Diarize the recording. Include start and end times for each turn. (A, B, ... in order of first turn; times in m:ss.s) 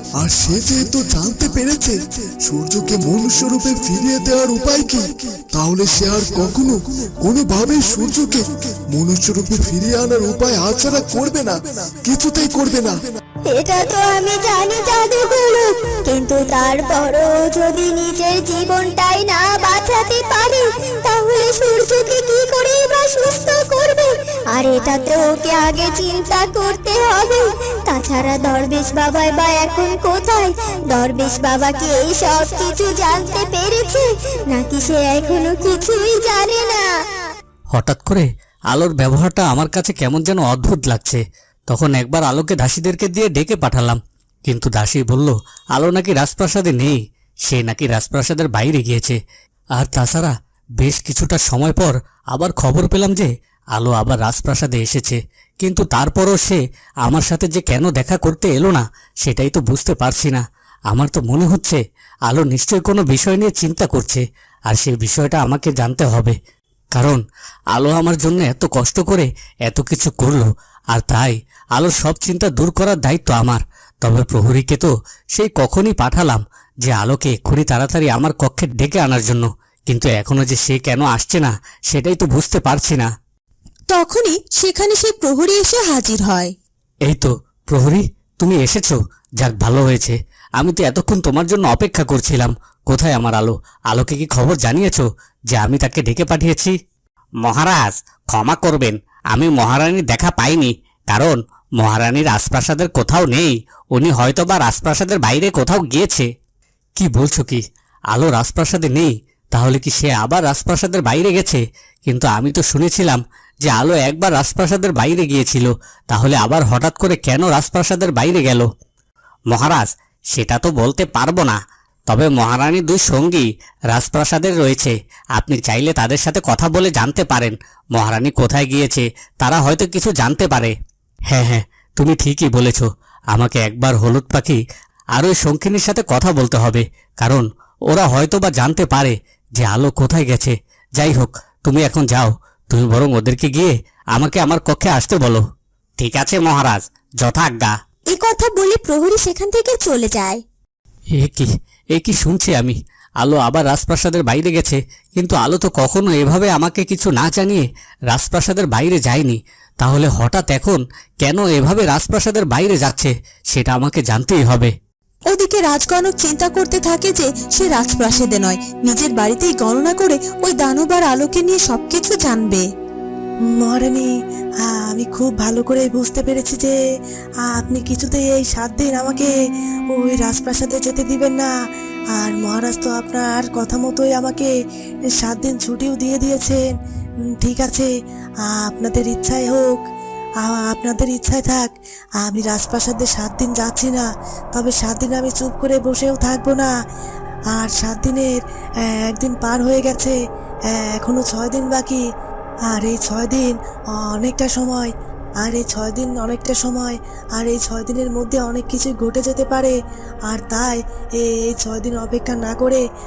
0:00.2-0:13.0 A
0:13.5-0:36.9 B
0:37.7-0:49.2 C
0:49.7-1:06.4 C
1:06.9-1:07.2 C
1:07.7-1:23.1 C
1:23.9-1:26.5 D
1:27.0-1:36.7 C
1:37.4-1:46.2 C
1:47.0-1:58.7 C
1:59.5-2:10.7 C
2:11.3-2:14.6 C
2:15.2-2:25.4 C
2:26.0-2:27.8 C
2:28.1-2:30.4 D
2:31.2-2:44.7 C
2:45.3-2:52.6 D
2:53.5-2:54.1 E
2:54.6-2:56.7 E
2:57.4-2:59.3 E
2:59.9-3:01.5 E
3:02.2-3:04.5 E
3:05.2-3:06.6 E
3:07.4-3:07.9 E
3:08.4-3:09.8 E
3:10.4-3:16.7 E
3:17.5-3:20.2 E
3:20.7-3:22.0 E
3:22.7-3:24.9 E
3:25.4-3:29.8 E
3:30.3-3:32.8 E